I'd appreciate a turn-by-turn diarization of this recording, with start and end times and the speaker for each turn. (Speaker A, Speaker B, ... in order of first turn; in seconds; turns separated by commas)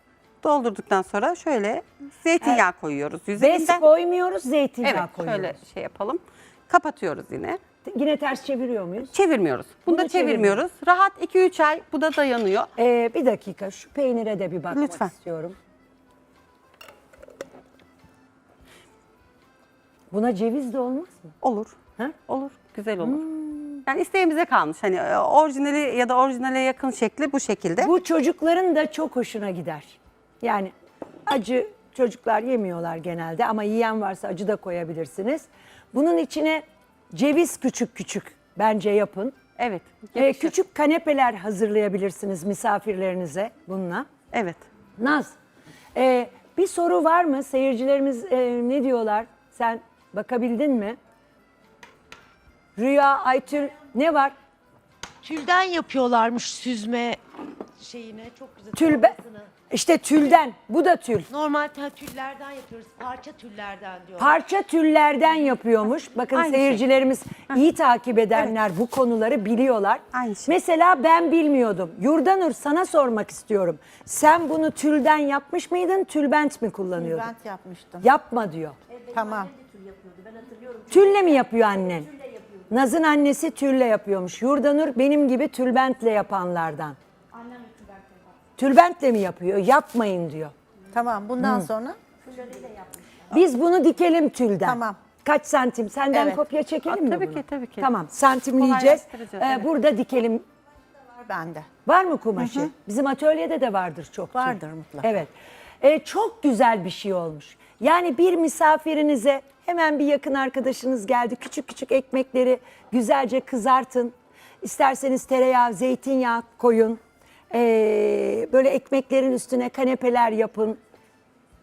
Speaker A: 0.4-3.8, Speaker B: 3.4-5.5, Speaker A: 4.8-7.6, Speaker B: 7.8-9.1, Speaker A: 9.1-12.7, Speaker B: 9.9-10.6, Speaker B: 12.8-15.6, Speaker A: 14.7-15.1, Speaker B: 20.1-21.4, Speaker A: 21.4-23.2, Speaker B: 23.0-23.8, Speaker A: 23.9-27.9, Speaker B: 27.8-30.7, Speaker B: 31.3-39.3, Speaker A: 39.6-40.5, Speaker B: 40.1-44.1, Speaker A: 44.3-44.6, Speaker B: 45.0-45.3, Speaker B: 45.9-51.0, Speaker B: 52.8-54.3, Speaker C: 55.2-57.2, Speaker C: 57.8-59.5, Speaker B: 58.7-59.1, Speaker B: 59.7-61.3, Speaker C: 61.3-64.3, Speaker B: 64.2-77.3, Speaker A: 66.3-66.8, Speaker A: 70.1-70.5, Speaker D: 77.0-78.0, Speaker B: 78.0-78.8, Speaker C: 79.1-80.8, Speaker D: 79.1-79.5, Speaker B: 80.9-82.1, Speaker B: 82.7-87.0, Speaker C: 87.6-88.1, Speaker B: 88.6-90.5, Speaker D: 90.9-92.0, Speaker B: 91.4-91.7, Speaker C: 92.3-92.8, Speaker B: 93.3-100.4, Speaker D: 94.7-95.0, Speaker A: 96.9-97.9, Speaker A: 98.5-99.7, Speaker D: 101.1-101.7, Speaker B: 101.8-120.8, Speaker D: 104.3-105.0